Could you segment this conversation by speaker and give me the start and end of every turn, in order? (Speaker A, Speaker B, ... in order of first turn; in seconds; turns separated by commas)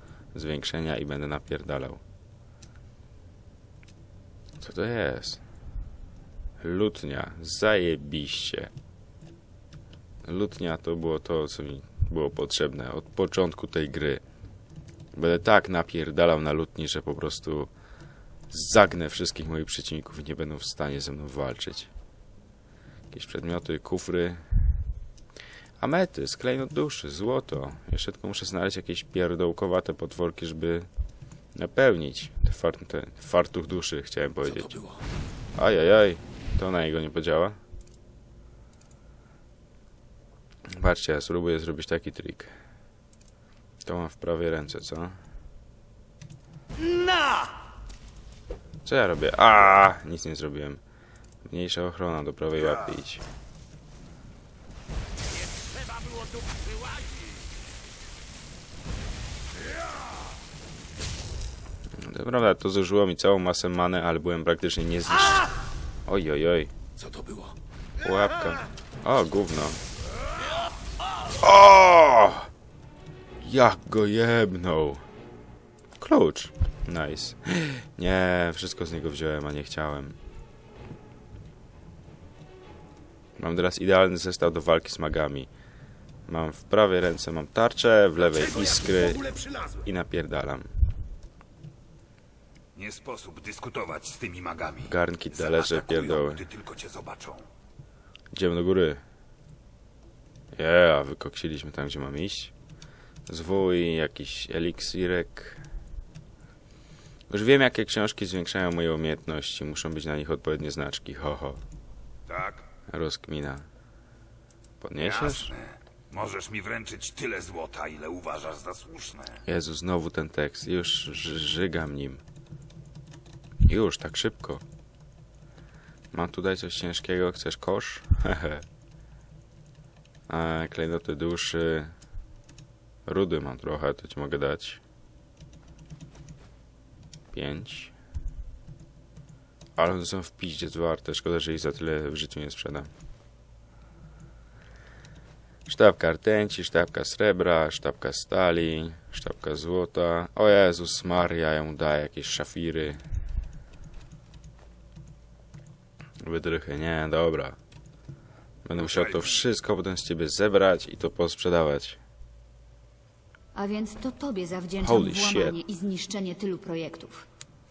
Speaker A: 0.3-2.0, Speaker A: 4.6-5.4, Speaker A: 6.6-8.7, Speaker A: 10.2-14.2, Speaker A: 15.1-17.7, Speaker A: 18.5-21.9, Speaker A: 23.1-24.4, Speaker A: 25.8-30.9, Speaker A: 31.5-34.8, Speaker B: 34.5-35.0, Speaker A: 35.5-37.6, Speaker A: 40.7-42.5, Speaker A: 43.8-45.2, Speaker A: 48.8-50.8, Speaker A: 51.4-53.2, Speaker A: 62.0-65.5, Speaker A: 66.0-66.7, Speaker B: 67.0-67.5, Speaker A: 68.0-69.8, Speaker A: 71.4-72.5, Speaker A: 73.4-75.0, Speaker A: 76.0-80.2, Speaker A: 83.4-85.5, Speaker A: 86.3-90.7, Speaker B: 88.3-89.8, Speaker B: 92.8-97.5, Speaker A: 94.8-96.5, Speaker A: 98.3-99.0, Speaker A: 100.5-102.5, Speaker A: 103.3-105.6, Speaker A: 107.3-111.6, Speaker B: 112.3-112.7, Speaker A: 112.9-113.6, Speaker A: 114.8-115.5, Speaker B: 115.0-119.4, Speaker A: 119.4-122.2, Speaker A: 123.6-124.6, Speaker A: 126.1-128.6, Speaker A: 130.3-131.9, Speaker A: 133.1-134.8, Speaker A: 137.3-137.9, Speaker A: 139.8-142.9, Speaker A: 145.7-153.0, Speaker A: 156.2-157.6, Speaker A: 158.6-162.0, Speaker B: 158.8-159.3, Speaker C: 163.5-167.2, Speaker A: 164.8-165.6